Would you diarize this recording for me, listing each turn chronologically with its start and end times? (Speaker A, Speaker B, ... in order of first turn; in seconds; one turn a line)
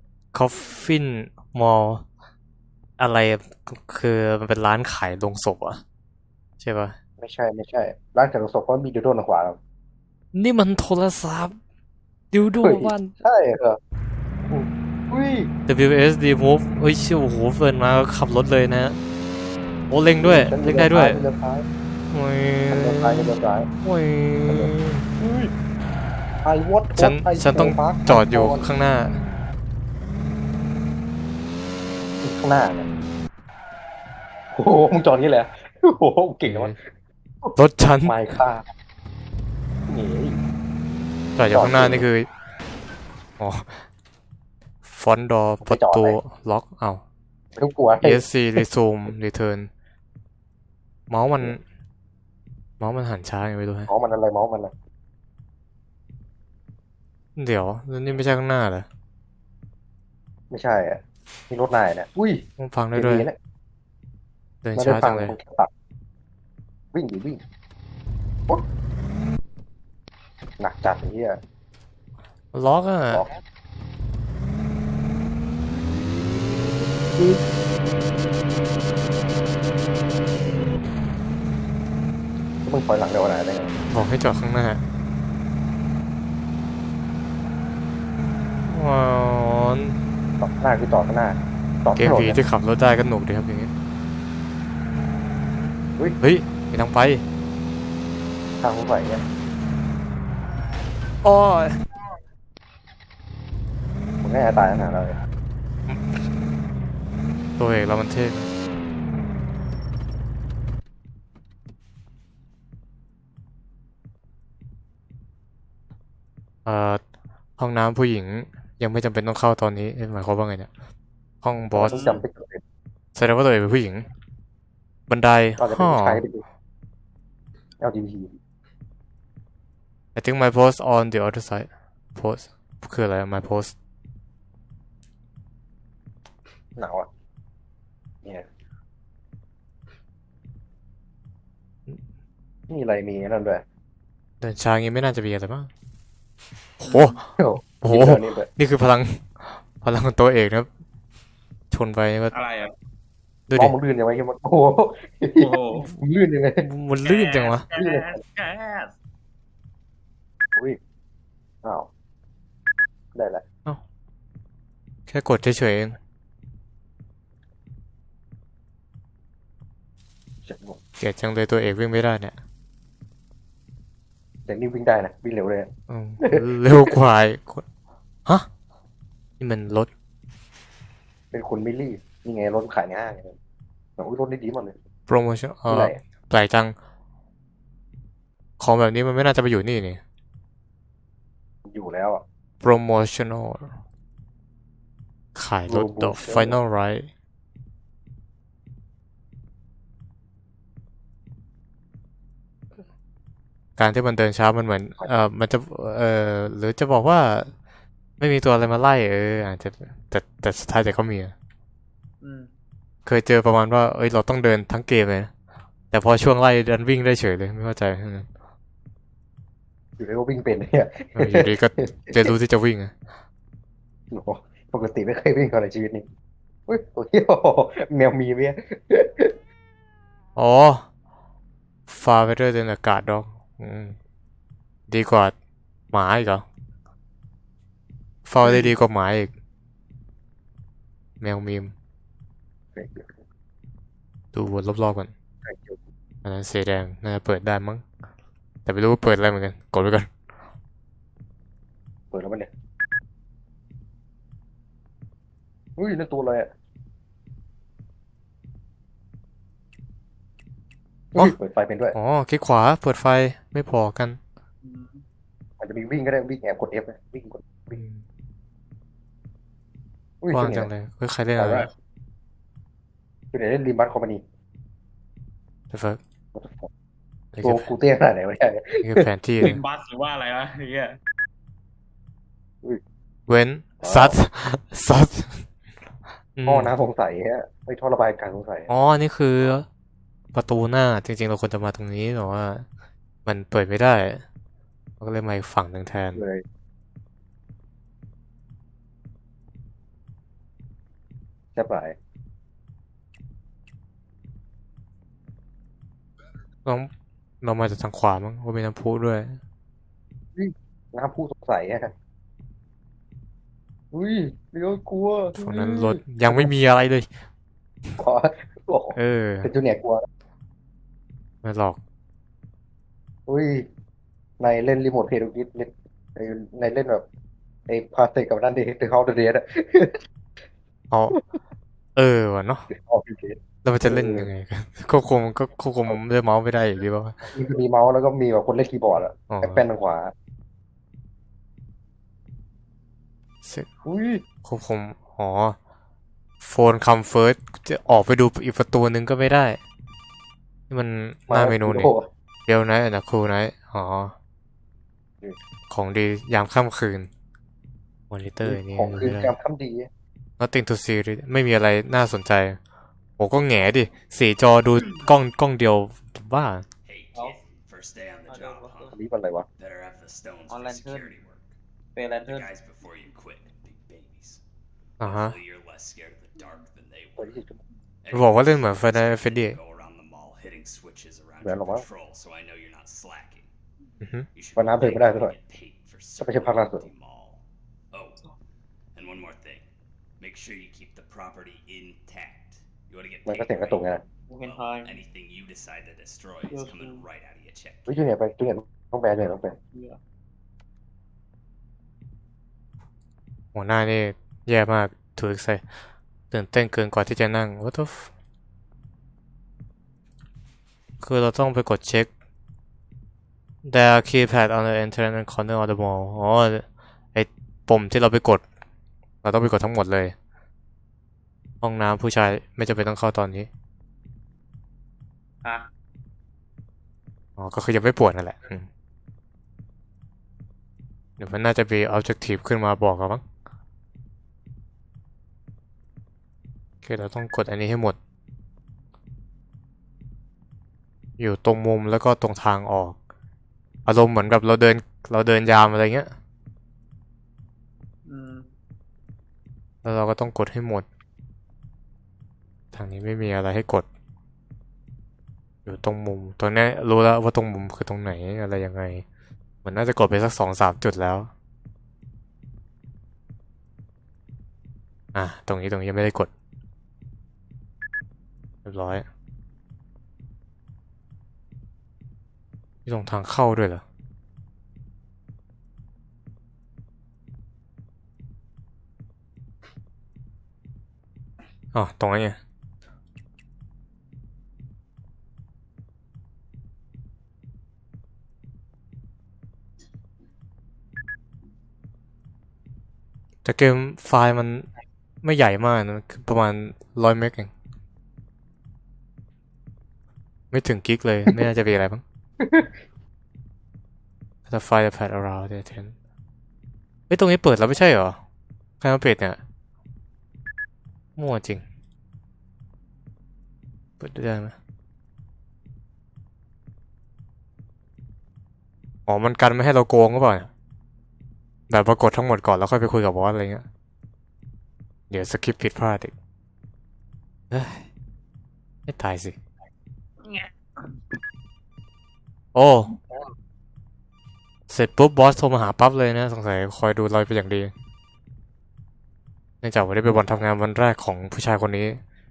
Speaker A: 0.3-2.0
Speaker A: 3.0-5.8
Speaker A: 6.6-7.0
Speaker B: 7.2-9.6
Speaker A: 10.3-11.6
Speaker A: 12.3-13.1
Speaker B: 12.6-13.8
Speaker B: 14.5-15.5
Speaker A: 15.7-19.0
Speaker A: 19.9-21.2
Speaker B: 20.2-21.6
Speaker A: 22.1-25.1
Speaker B: 22.7-23.7
Speaker B: 24.5-25.5
Speaker B: 26.4-28.7
Speaker A: 26.9-29.2
Speaker B: 32.2-32.9
Speaker B: 34.5-36.8
Speaker A: 36.5-36.8
Speaker B: 37.4-38.6
Speaker A: 37.5-38.1
Speaker B: 39.9-40.4
Speaker A: 41.4-42.3
Speaker B: 41.5-42.1
Speaker A: 43.4-43.8
Speaker A: 44.8-47.0
Speaker B: 45.6-46.2
Speaker B: 47.6-48.6
Speaker A: 48.0-49.7
Speaker A: 51.1-51.6
Speaker A: 52.8-53.9
Speaker B: 53.9-54.7
Speaker A: 57.4-58.9
Speaker B: 60.5-62.4
Speaker A: 62.6-63.3
Speaker B: 63.0-63.4
Speaker A: 64.6-65.3
Speaker B: 64.8-65.7
Speaker B: 66.9-67.4
Speaker B: 70.6-71.4
Speaker A: 72.5-73.3
Speaker B: 82.6-83.8
Speaker A: 83.9-84.8
Speaker A: 88.7-90.0
Speaker B: 90.4-92.4
Speaker A: 92.0-93.7
Speaker A: 96.2-97.2
Speaker B: 98.6-99.2
Speaker A: 101.2-101.8
Speaker B: 104.2-105.2
Speaker A: 107.6-108.5
Speaker A: 116.7-117.0
Speaker A: 117.6-120.7
Speaker A: 121.4-122.1
Speaker B: 121.7-122.6
Speaker C: 121.9-122.2
Speaker A: 123.1-124.1
Speaker A: 125.1-126.2
Speaker B: 125.6-126.4
Speaker B: 127.8-128.3
Speaker A: 130.2-133.7
Speaker B: 136.8-137.1
Speaker B: 142.7-143.6
Speaker A: 144.4-145.7
Speaker A: 146.8-147.2
Speaker C: 146.8-147.2
Speaker B: 147.4-148.5
Speaker A: 147.8-150.7
Speaker A: 151.7-152.3
Speaker C: 152.3-152.7
Speaker A: 153.5-153.7
Speaker B: 153.5-156.7
Speaker C: 155.4-155.9
Speaker A: 156.6-157.7
Speaker C: 157.0-158.9
Speaker B: 157.7-158.2
Speaker B: 163.1-163.4
Speaker A: 165.1-166.0
Speaker B: 170.4-170.8
Speaker A: 171.0-172.4
Speaker B: 174.5-175.7
Speaker A: 175.9-177.7
Speaker B: 176.2-176.9
Speaker A: 179.4-179.9
Speaker B: 181.3-183.3
Speaker B: 184.0-184.8
Speaker A: 185.1-186.8
Speaker B: 185.7-186.0
Speaker A: 188.6-190.0
Speaker B: 191.7-192.2
Speaker A: 192.6-193.7
Speaker A: 195.3-197.1
Speaker B: 195.7-196.6
Speaker A: 203.8-207.5
Speaker A: 208.2-211.3
Speaker C: 212.2-212.5
Speaker A: 213.1-215.3
Speaker A: 215.9-218.3
Speaker B: 220.0-222.3
Speaker A: 221.2-222.9
Speaker B: 224.1-226.1
Speaker B: 226.7-229.3
Speaker A: 230.4-230.9
Speaker A: 231.9-234.0
Speaker A: 234.9-235.3
Speaker A: 235.9-236.4
Speaker A: 238.2-239.3
Speaker B: 238.4-238.7
Speaker A: 241.2-241.7
Speaker B: 242.8-243.2
Speaker A: 244.3-245.1
Speaker B: 245.4-245.8
Speaker A: 246.2-247.8
Speaker A: 248.7-250.1
Speaker B: 252.1-252.5
Speaker B: 255.8-256.5
Speaker B: 261.1-262.0
Speaker A: 261.9-264.2
Speaker C: 264.6-265.0
Speaker B: 265.6-267.8
Speaker A: 267.8-268.0
Speaker B: 270.2-270.7
Speaker A: 270.3-271.7
Speaker B: 271.4-271.7
Speaker B: 273.3-274.2
Speaker A: 275.7-276.0
Speaker B: 276.4-276.7
Speaker A: 277.3-277.7
Speaker B: 277.4-279.5
Speaker A: 278.8-279.6
Speaker C: 279.4-281.0
Speaker A: 283.3-285.5
Speaker B: 283.8-284.2
Speaker A: 286.4-286.7
Speaker B: 286.4-288.8
Speaker A: 288.7-289.7
Speaker A: 290.3-292.7
Speaker A: 293.2-294.2
Speaker A: 295.0-296.2
Speaker B: 296.2-296.4
Speaker B: 301.6-302.0
Speaker A: 306.6-306.9
Speaker A: 307.4-309.4
Speaker B: 310.4-311.9
Speaker B: 313.9-316.5
Speaker A: 315.3-317.1
Speaker B: 318.0-320.1
Speaker A: 318.9-319.5
Speaker A: 321.4-321.8
Speaker B: 323.3-323.7
Speaker B: 324.4-327.1
Speaker B: 327.7-330.0
Speaker A: 330.9-331.2
Speaker A: 332.0-332.7
Speaker B: 332.7-334.3
Speaker A: 333.6-337.2
Speaker B: 337.3-340.1
Speaker A: 339.3-339.6
Speaker A: 343.4-343.7
Speaker B: 343.9-344.2
Speaker A: 344.4-345.6
Speaker A: 346.4-349.6
Speaker A: 350.7-351.9
Speaker B: 351.3-352.1
Speaker A: 352.5-354.1
Speaker A: 355.7-357.1
Speaker A: 358.1-359.4
Speaker B: 358.4-359.9
Speaker A: 360.4-362.6
Speaker A: 363.2-366.7
Speaker D: 366.8-369.0
Speaker C: 368.3-368.9
Speaker B: 368.9-369.5
Speaker D: 369.6-371.6
Speaker C: 370.5-371.1
Speaker C: 371.9-372.5
Speaker D: 372.1-374.4
Speaker D: 375.0-377.4
Speaker A: 375.0-375.4
Speaker B: 377.2-377.6
Speaker D: 378.0-383.5
Speaker A: 378.1-379.6
Speaker B: 381.4-381.9
Speaker A: 384.0-384.3
Speaker D: 384.3-388.3
Speaker B: 384.6-385.4
Speaker B: 386.2-386.9
Speaker D: 388.9-389.7
Speaker D: 390.2-398.0
Speaker B: 393.3-394.0
Speaker C: 394.3-395.0
Speaker C: 396.5-397.1
Speaker B: 397.9-399.6
Speaker C: 399.7-400.0
Speaker A: 403.5-405.6
Speaker A: 406.3-408.1
Speaker A: 411.0-412.1
Speaker A: 413.6-418.4
Speaker A: 419.2-420.1
Speaker A: 421.6-423.5
Speaker C: 425.4-425.7
Speaker A: 427.4-428.7
Speaker A: 431.2-433.2
Speaker A: 436.8-438.0
Speaker A: 441.2-443.0
Speaker A: 443.9-446.1
Speaker C: 448.1-448.5
Speaker A: 449.8-450.9
Speaker A: 452.7-453.9
Speaker A: 455.6-459.1
Speaker A: 459.6-461.3
Speaker A: 465.1-466.3
Speaker A: 468.6-469.1
Speaker A: 472.9-473.8
Speaker A: 481.7-482.4
Speaker A: 493.4-494.7
Speaker A: 495.2-497.5
Speaker A: 500.5-502.0
Speaker B: 502.4-502.8
Speaker A: 504.5-505.9
Speaker A: 507.1-508.2
Speaker A: 508.8-509.4
Speaker A: 511.2-511.6
Speaker A: 514.0-514.5
Speaker A: 519.1-520.5
Speaker A: 521.7-523.6
Speaker A: 525.1-526.1
Speaker A: 527.5-527.9
Speaker A: 528.9-529.4
Speaker C: 530.2-530.5
Speaker A: 532.5-532.9
Speaker A: 534.7-537.7
Speaker A: 539.6-542.0